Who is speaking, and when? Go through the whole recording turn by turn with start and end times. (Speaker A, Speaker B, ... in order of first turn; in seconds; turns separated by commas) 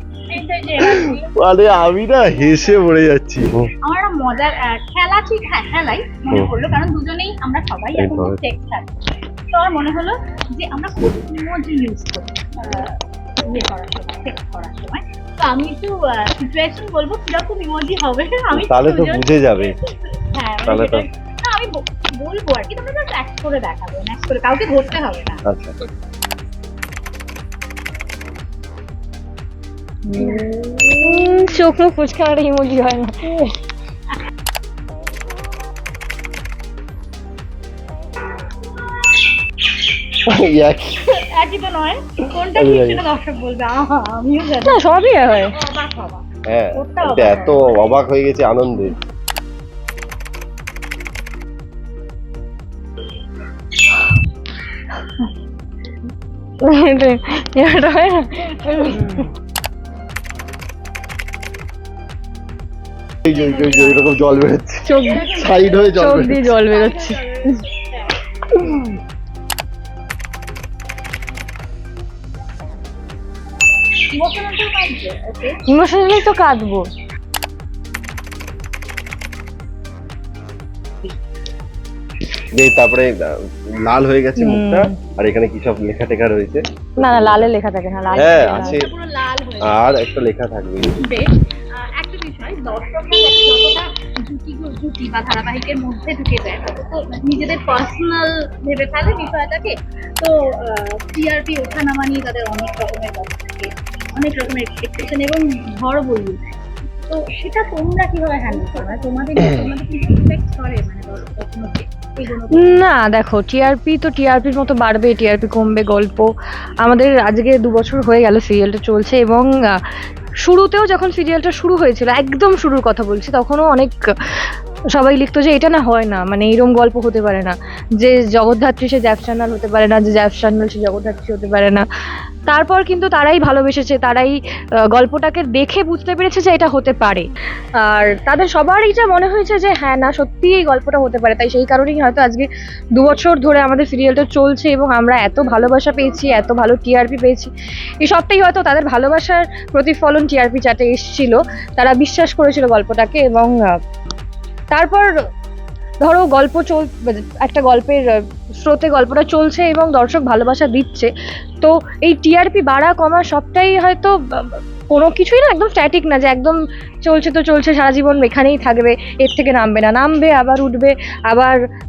Speaker A: 0.3-1.3, Speaker B: 0.8-3.7, Speaker A: 2.2-2.9, Speaker A: 3.9-8.9, Speaker B: 8.0-8.4, Speaker A: 9.5-25.4, Speaker B: 18.5-19.7, Speaker B: 20.6-21.0, Speaker B: 25.4-25.7, Speaker C: 30.1-33.3, Speaker A: 30.1-31.4, Speaker B: 40.2-41.0, Speaker A: 41.1-48.0, Speaker B: 42.5-43.0, Speaker C: 44.6-45.5, Speaker B: 46.5-49.0, Speaker C: 53.9-54.2, Speaker C: 55.0-55.2, Speaker C: 56.6-59.3, Speaker A: 58.6-59.1, Speaker B: 63.3-66.5, Speaker A: 63.3-64.2, Speaker C: 64.8-65.2, Speaker A: 65.0-68.2, Speaker C: 66.0-67.2, Speaker A: 74.1-75.6, Speaker C: 75.7-76.9, Speaker B: 82.5-83.1, Speaker B: 83.8-87.5, Speaker C: 84.4-85.0, Speaker C: 87.0-88.8, Speaker A: 88.1-89.8, Speaker B: 88.1-88.9, Speaker B: 89.6-91.0, Speaker A: 91.0-106.4, Speaker A: 107.1-112.8, Speaker C: 112.5-116.3, Speaker C: 116.8-119.8, Speaker C: 120.4-123.9, Speaker C: 124.9-131.8, Speaker C: 132.5-134.3, Speaker C: 134.9-137.3, Speaker C: 137.8-147.5, Speaker C: 148.0-153.7, Speaker C: 154.7-155.1, Speaker C: 156.0-158.1, Speaker C: 158.6-171.6